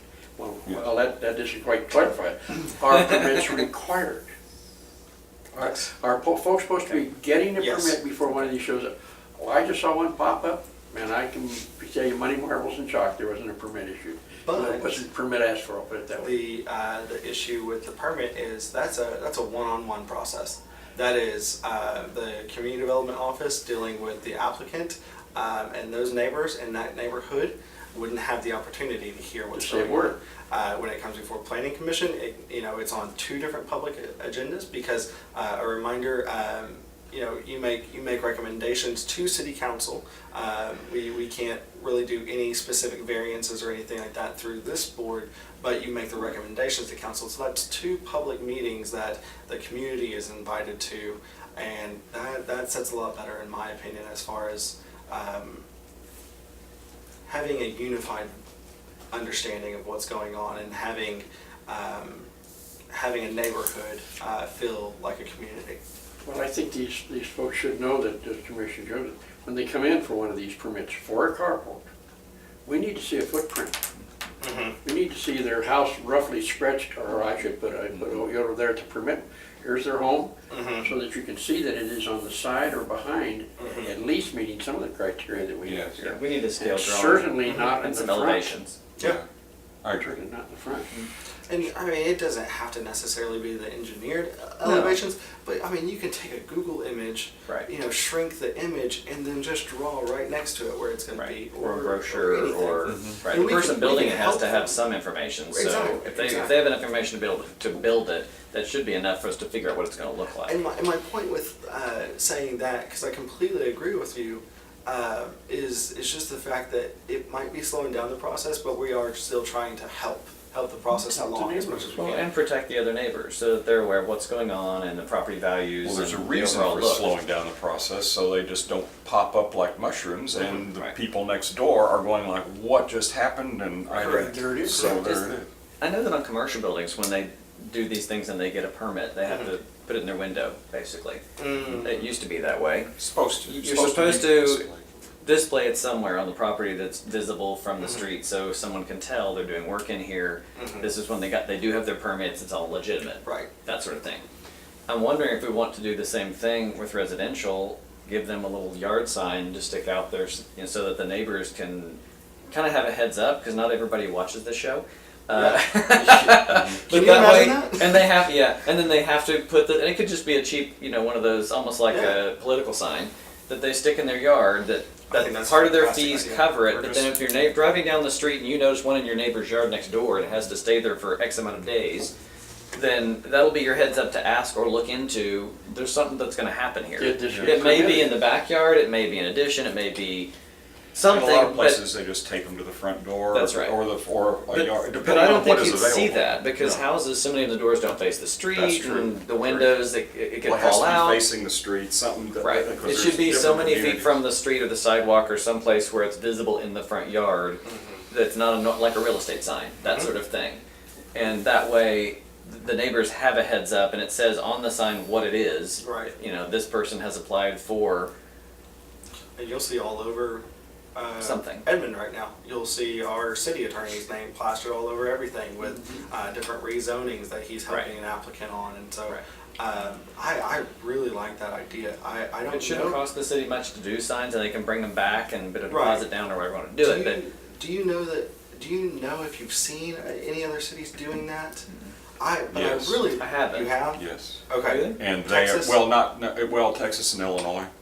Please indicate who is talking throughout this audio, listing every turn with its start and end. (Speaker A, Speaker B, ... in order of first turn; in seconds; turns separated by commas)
Speaker A: 0.4-4.3, Speaker A: 5.6-16.3, Speaker B: 7.6-8.0, Speaker B: 14.4-15.0, Speaker B: 16.2-55.6, Speaker A: 29.5-30.1, Speaker B: 57.3-58.3, Speaker B: 59.1-62.3, Speaker B: 62.9-65.8, Speaker A: 66.2-71.8, Speaker A: 72.7-73.8, Speaker B: 74.4-74.8, Speaker A: 74.8-88.6, Speaker C: 77.9-78.2, Speaker B: 80.5-80.9, Speaker B: 83.6-83.9, Speaker C: 85.7-85.9, Speaker D: 86.0-88.8, Speaker C: 89.0-89.2, Speaker C: 89.8-90.1, Speaker A: 90.0-90.9, Speaker B: 91.5-104.8, Speaker D: 94.6-95.0, Speaker D: 101.1-110.6, Speaker C: 102.9-103.2, Speaker B: 105.5-106.6, Speaker B: 110.5-122.3, Speaker A: 121.3-121.7, Speaker D: 122.0-127.2, Speaker C: 125.8-135.5, Speaker A: 133.9-135.3, Speaker B: 134.0-135.0, Speaker D: 135.8-142.9, Speaker B: 141.4-141.9, Speaker C: 143.0-144.9, Speaker D: 143.4-144.7, Speaker D: 145.2-154.2, Speaker B: 150.6-150.9, Speaker B: 153.2-153.5, Speaker D: 154.9-162.0, Speaker D: 162.5-182.1, Speaker B: 165.3-165.6, Speaker A: 165.9-166.6, Speaker C: 166.4-166.8, Speaker B: 166.9-168.1, Speaker B: 171.9-172.2, Speaker B: 175.1-177.1, Speaker D: 182.7-190.3, Speaker A: 187.0-188.2, Speaker C: 187.3-187.6, Speaker D: 190.9-191.8, Speaker C: 191.1-196.8, Speaker D: 193.3-193.8, Speaker D: 194.5-201.2, Speaker C: 198.5-199.7, Speaker C: 200.4-204.2, Speaker D: 202.4-210.6, Speaker B: 207.7-208.0, Speaker B: 209.8-210.1, Speaker D: 211.2-218.1, Speaker B: 215.8-216.1, Speaker B: 219.4-233.0, Speaker D: 221.2-221.7, Speaker D: 225.6-225.9, Speaker D: 232.5-237.2, Speaker B: 235.7-236.1, Speaker B: 236.8-241.7, Speaker B: 242.2-245.8, Speaker C: 242.5-243.0, Speaker D: 242.8-243.7, Speaker C: 243.9-244.4, Speaker D: 244.6-245.0, Speaker C: 245.0-247.7